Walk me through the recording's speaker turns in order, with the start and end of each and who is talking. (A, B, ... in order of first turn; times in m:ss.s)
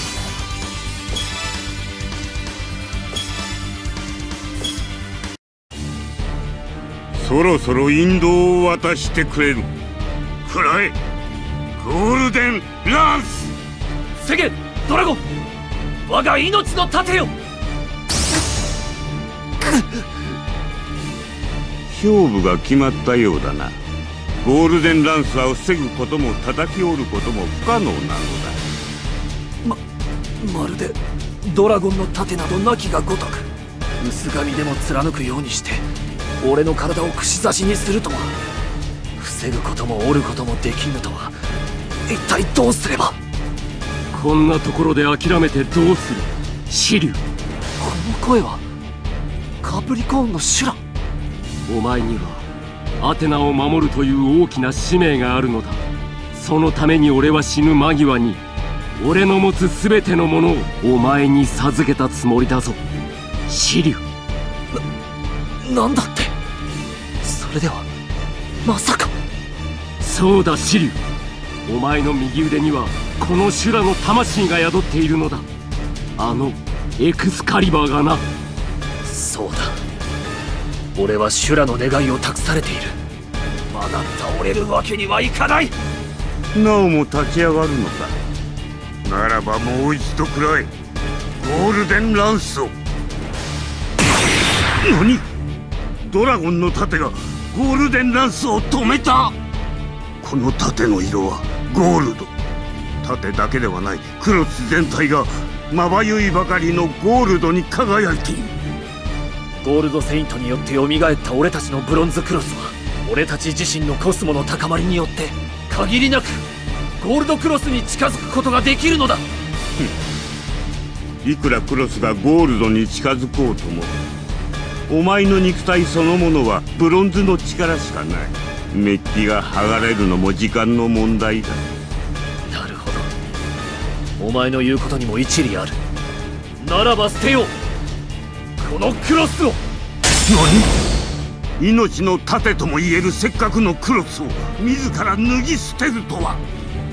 0:07.1-0:09.7 A
0:10.4-0:11.0 A
0:11.8-0:13.5 A
0:14.2-0:15.2 B
0:16.0-0:17.3 B
0:19.6-0:19.9 B
0:21.9-0:23.8 A
0:24.4-0:28.6 A
0:30.4-0:33.5 B
0:34.0-0:35.8 B
0:36.4-0:38.3 B
0:39.2-0:41.3 B
0:42.1-0:43.2 B
0:44.1-0:47.2 C
0:47.8-0:48.6 B
0:49.6-0:50.8 B
0:51.7-0:52.5 C
0:53.0-0:55.8 C
0:56.3-0:58.4 C
0:59.0-1:02.8 C
1:03.5-1:04.0 C
1:05.6-1:06.4 B
1:07.2-1:07.9 B
1:08.6-1:09.1 B
1:10.0-1:11.0 C
1:11.7-1:15.4 C
1:16.2-1:18.2 C
1:19.0-1:19.8 B
1:20.9-1:23.0 B
1:23.7-1:25.7 B
1:26.5-1:28.2 A
1:29.0-1:30.7 A
1:31.4-1:32.7 A
1:34.8-1:35.2 A
1:36.0-1:39.4 A
1:40.2-1:42.3 A
1:43.0-1:48.5 A
1:49.6-1:56.4 B
1:57.0-1:59.2 B
2:01.2-2:03.9 A
2:04.9-2:11.6 A
2:12.5-2:13.1 B
2:14.2-2:15.8 B
2:16.6-2:17.6 B
2:18.6-2:19.6 B
2:20.3-2:20.7 A
2:21.6-2:26.4 A